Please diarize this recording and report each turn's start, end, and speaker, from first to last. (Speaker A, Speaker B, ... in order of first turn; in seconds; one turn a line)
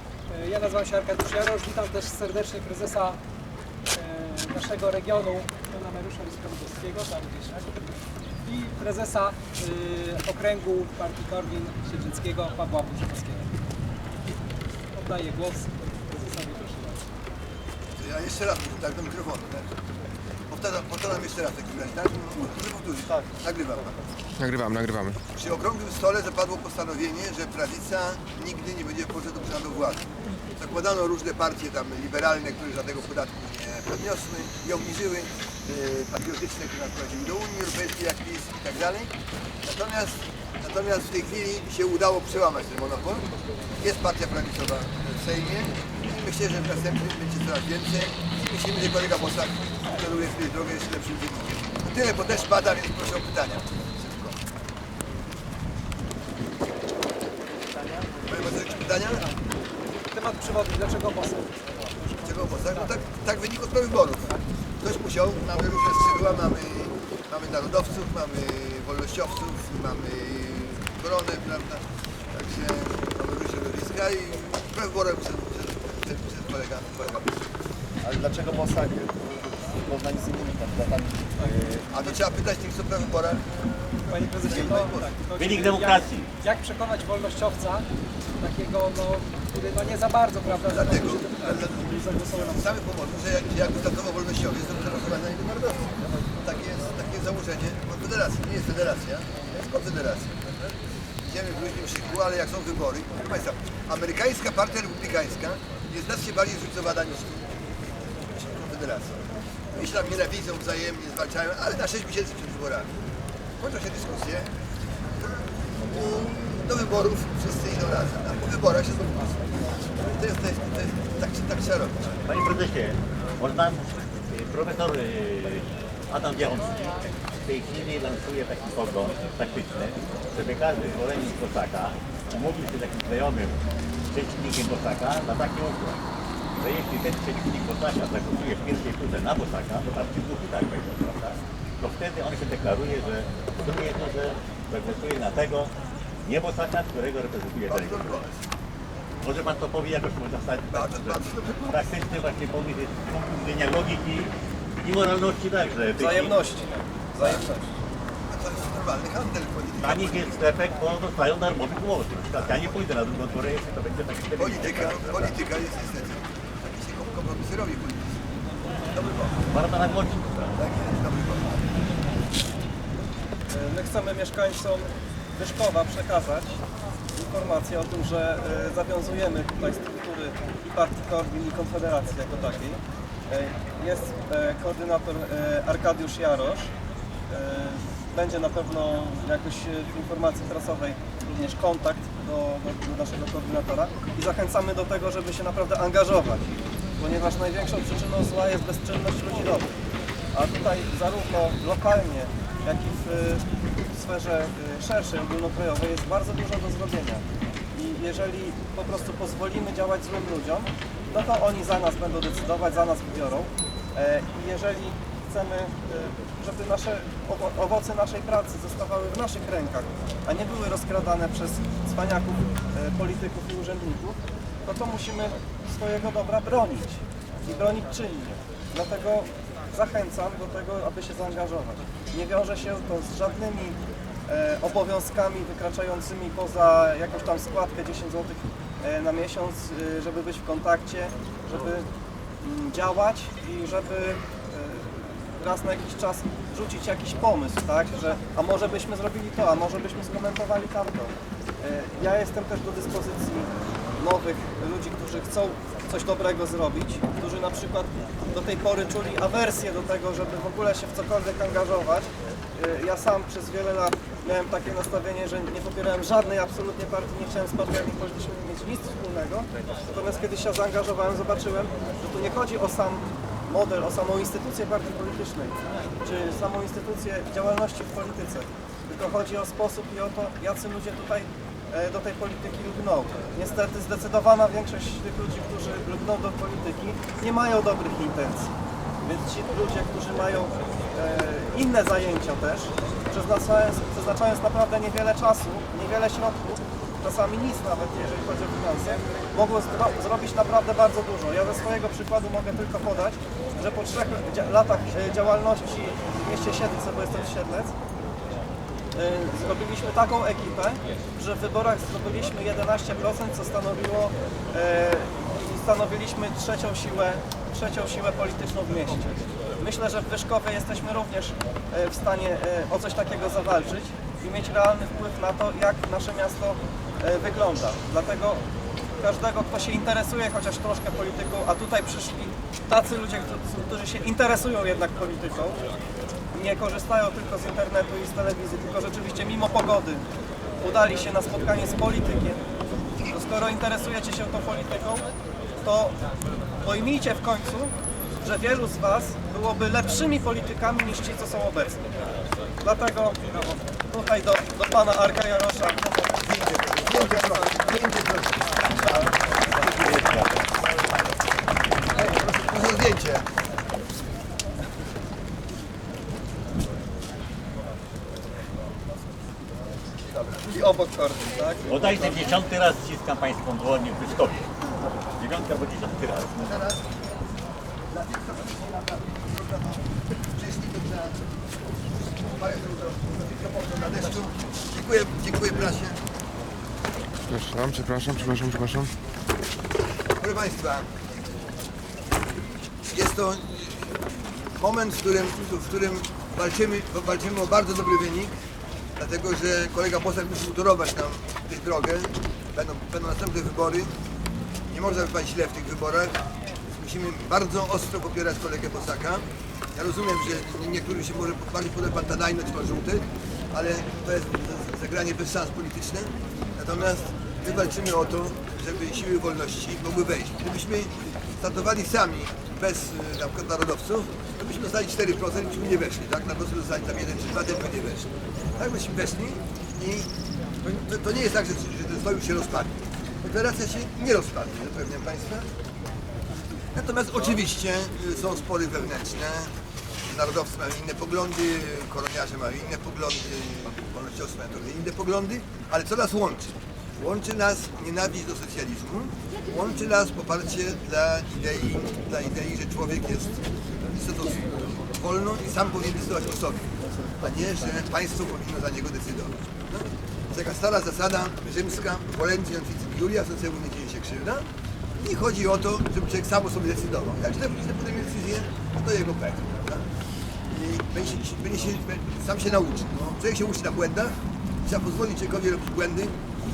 Speaker A: 0.3-3.2
Speaker A: 4.0-7.8
Speaker A: 8.4-13.5
Speaker A: 14.9-17.0
Speaker B: 18.0-19.7
Speaker B: 20.5-24.0
Speaker C: 24.4-25.2
Speaker B: 25.3-30.1
Speaker B: 30.6-39.1
Speaker B: 39.6-43.3
Speaker B: 43.8-54.4
Speaker B: 58.2-59.2
Speaker A: 60.0-62.9
Speaker B: 62.2-77.4
Speaker D: 78.0-82.1
Speaker B: 81.9-83.5
Speaker A: 84.1-87.9
Speaker B: 84.4-85.1
Speaker E: 85.4-86.3
Speaker A: 88.4-92.7
Speaker B: 90.6-100.7
Speaker B: 101.2-113.1
Speaker B: 113.6-114.5
Speaker B: 115.2-122.2
Speaker E: 122.3-133.6
Speaker E: 134.1-136.0
Speaker E: 136.6-145.7
Speaker E: 146.2-148.2
Speaker B: 147.7-148.4
Speaker E: 149.2-154.3
Speaker B: 150.7-151.8
Speaker E: 154.8-156.3
Speaker F: 156.0-157.7
Speaker B: 158.3-160.4
Speaker E: 159.8-165.4
Speaker B: 162.3-162.9
Speaker B: 164.4-168.2
Speaker B: 168.9-169.5
Speaker E: 169.5-170.6
Speaker B: 170.6-171.7
Speaker F: 173.5-176.6
Speaker F: 177.2-186.7
Speaker F: 187.3-196.4
Speaker F: 197.0-199.7
Speaker F: 200.3-241.9
Speaker F: 242.4-307.7
Speaker F: 308.9-328.4
Speaker F: 329.0-335.6
Speaker F: 336.3-340.1
Speaker F: 340.6-342.4
Speaker F: 343.1-345.1
Speaker F: 345.6-346.0
Speaker F: 346.6-351.8
Speaker F: 352.6-355.8
Speaker B: 356.2-360.1
Speaker E: 359.8-360.3
Speaker B: 362.0-363.3
Speaker B: 370.1-370.6
Speaker F: 370.5-372.2
Speaker E: 371.7-374.5
Speaker E: 375.2-376.5
Speaker B: 376.4-377.1
Speaker B: 377.9-381.3
Speaker B: 381.9-386.0
Speaker C: 387.3-388.9
Speaker B: 390.2-390.9
Speaker B: 392.9-393.9
Speaker B: 394.6-398.3
Speaker B: 399.0-403.9
Speaker B: 404.7-406.2
Speaker B: 406.8-430.1
Speaker B: 430.6-435.5
Speaker B: 436.8-439.5
Speaker B: 440.1-453.4
Speaker B: 453.9-464.4
Speaker B: 465.0-469.9
Speaker B: 470.5-476.2